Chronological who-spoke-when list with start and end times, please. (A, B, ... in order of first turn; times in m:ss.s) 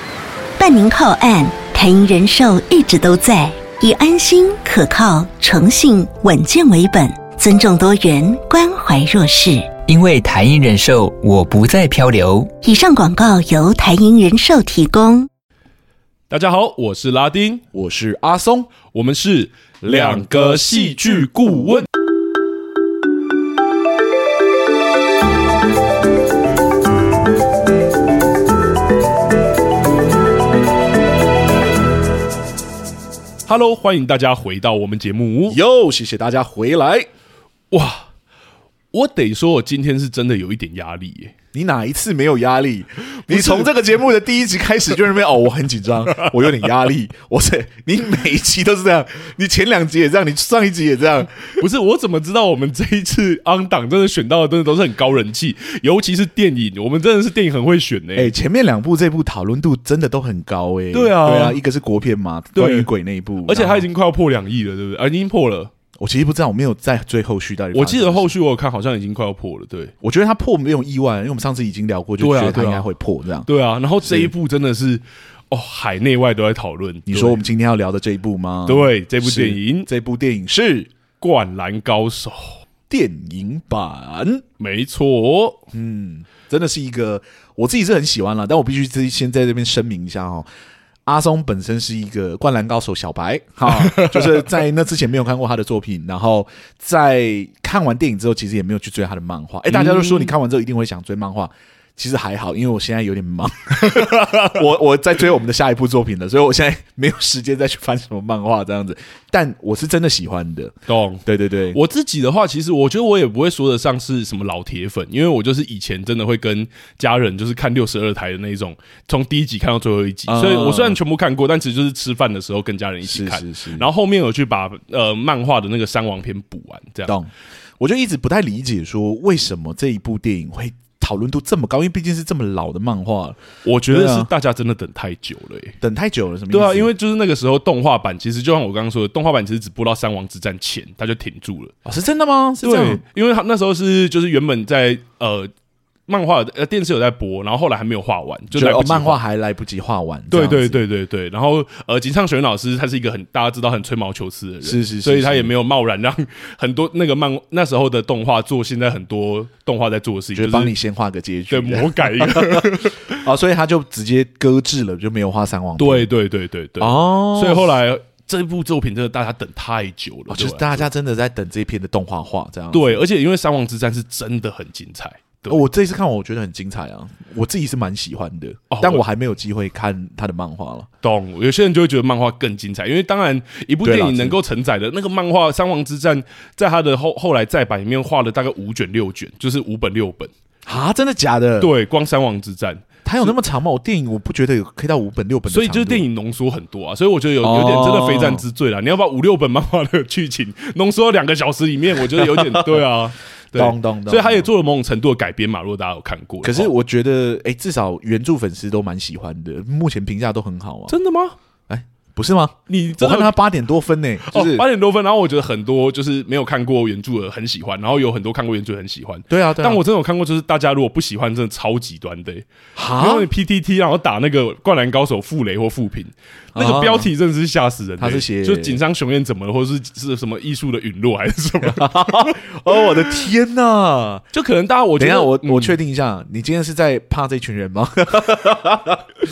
0:00.6-0:09.7 A
0:09.8-0:12.5 B
0:12.6-0:15.3 A
0:16.3-0:17.6 C
0:17.7-0:18.7 D
0:18.9-0:21.9 C
0:19.8-0:21.3 D
0:33.5-0:35.6 C
0:35.5-0:37.1 D
0:37.7-0:38.1 C
0:38.9-0:41.3 C
0:41.5-0:51.6 D
0:43.2-0:43.7 C
0:51.6-0:58.3 C
0:58.2-1:03.8 D
1:00.9-1:01.6 C
1:02.5-1:02.9 C
1:03.4-1:05.7 C
1:06.0-1:08.3 D
1:07.7-1:09.9 C
1:10.0-1:13.5 D
1:12.2-1:12.9 C
1:13.4-1:17.4 C
1:14.0-1:14.3 D
1:17.1-1:20.9 D
1:18.6-1:19.9 C
1:21.2-1:22.6 C
1:22.9-1:24.4 D
1:24.6-1:25.6 C
1:25.7-1:30.5 D
1:31.1-1:51.8 D
1:33.7-1:34.5 C
1:39.7-1:40.3 C
1:43.8-1:44.6 C
1:50.9-2:07.2 C
2:00.3-2:01.0 D
2:03.0-2:03.9 D
2:07.1-2:13.4 D
2:13.6-2:15.8 C
2:13.9-2:14.3 D
2:15.8-2:16.9 D
2:16.5-2:21.7 C
2:21.8-2:23.0 D
2:22.6-2:25.5 C
2:26.1-2:29.2 C
2:28.5-2:30.8 D
2:30.3-2:40.7 C
2:34.6-2:35.5 D
2:40.3-2:46.1 D
2:41.5-2:43.2 C
2:45.8-2:50.9 C
2:46.8-2:47.8 D
2:50.3-2:53.0 D
2:52.7-2:55.6 C
2:55.5-3:00.9 D
2:58.7-2:59.0 C
3:01.0-3:10.3 C
3:03.8-3:04.4 D
3:10.6-3:11.7 D
3:11.6-3:13.3 C
3:13.0-3:16.1 D
3:15.5-3:26.7 C
3:17.4-3:18.4 D
3:22.1-3:22.8 D
3:23.5-3:24.5 D
3:26.4-3:30.9 D
3:30.9-3:31.4 C
3:31.7-3:34.6 D
3:32.7-3:33.4 C
3:34.2-3:52.4 C
3:39.3-3:39.8 D
3:42.8-3:43.3 D
3:46.5-3:47.1 D
3:48.0-3:48.8 D
3:51.6-3:54.2 D
3:54.3-3:55.8 C
3:55.0-3:59.1 D